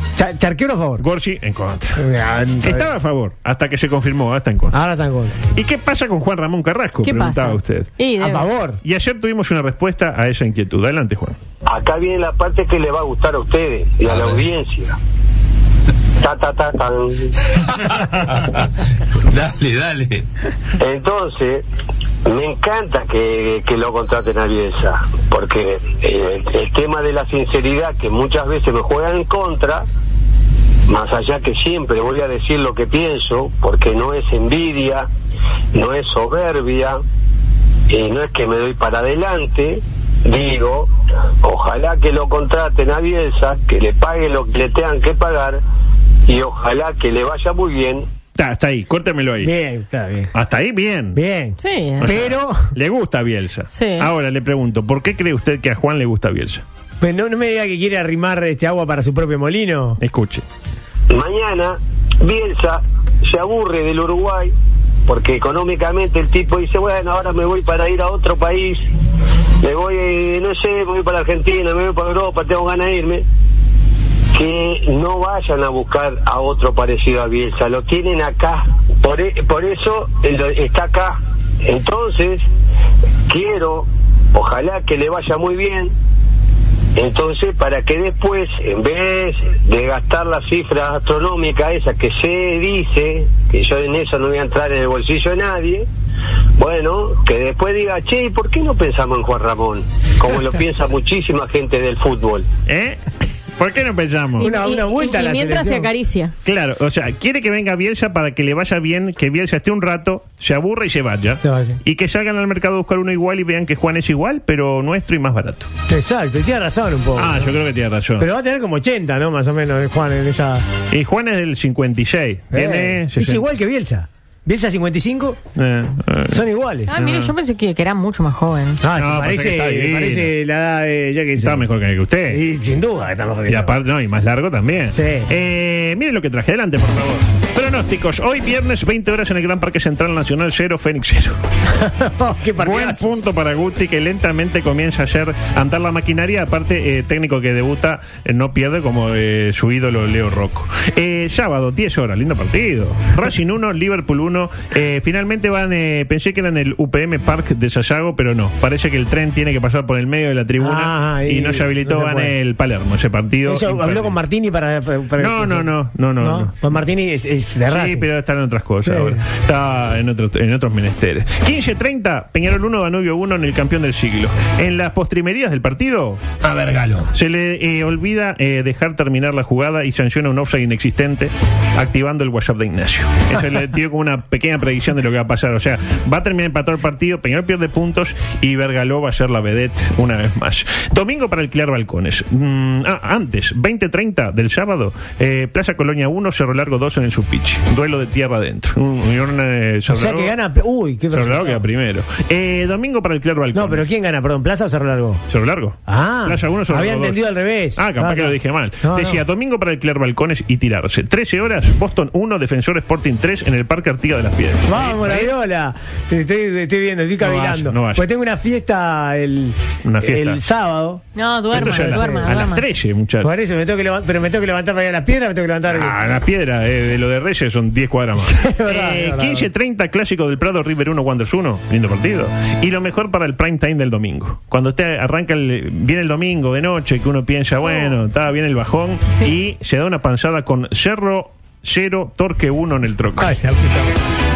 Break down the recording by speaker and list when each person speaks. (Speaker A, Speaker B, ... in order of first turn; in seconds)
Speaker A: 0.2-1.0, 2.0-2.9, 4.7-5.4, 8.2-8.8, 49.4-50.3, 51.1-52.6, 57.0-60.0, 104.4-105.9, 111.4-111.8, 115.9-117.5, 118.2-120.7, 122.5-125.4, 126.3-126.9, 128.8-131.6, 132.3-133.7, 134.9-135.3, 141.7-143.0, 160.6-162.3, 163.4-168.1, 168.8-169.2, 199.9-201.6, 203.5-205.2, 205.9-209.2, 214.7-221.0, 221.5-222.2, 223.2-225.9, 228.1-229.5, 243.2-243.9
Speaker B: 1.0-2.0, 2.6-4.8, 5.5-7.9, 8.8-11.4, 48.3-49.5, 50.3-51.2, 52.0-56.6, 60.0-60.4, 102.7-103.0, 103.6-104.5, 106.4-115.7, 117.2-118.3, 120.9-123.5, 125.5-127.3, 128.9-130.3, 131.4-132.4, 133.5-141.4, 142.6-164.2, 165.2-166.5, 167.7-176.2, 177.1-200.3, 201.1-203.8, 205.3-207.2, 207.7-215.3, 217.2-218.0, 219.8-220.4, 221.5-223.3, 225.7-243.4
Speaker C: 7.0-8.5, 51.6-52.1, 53.7-54.1, 104.4-106.3, 126.9-128.8, 221.1-222.6
Speaker D: 11.7-14.9, 16.2-17.5, 20.8-21.6, 22.2-29.9, 30.9-35.1, 35.7-37.0, 37.9-40.9, 41.4-45.6, 46.3-48.1, 61.1-64.5, 65.1-68.8, 69.6-73.2, 74.3-82.5, 83.3-85.9, 87.0-95.8, 96.6-102.5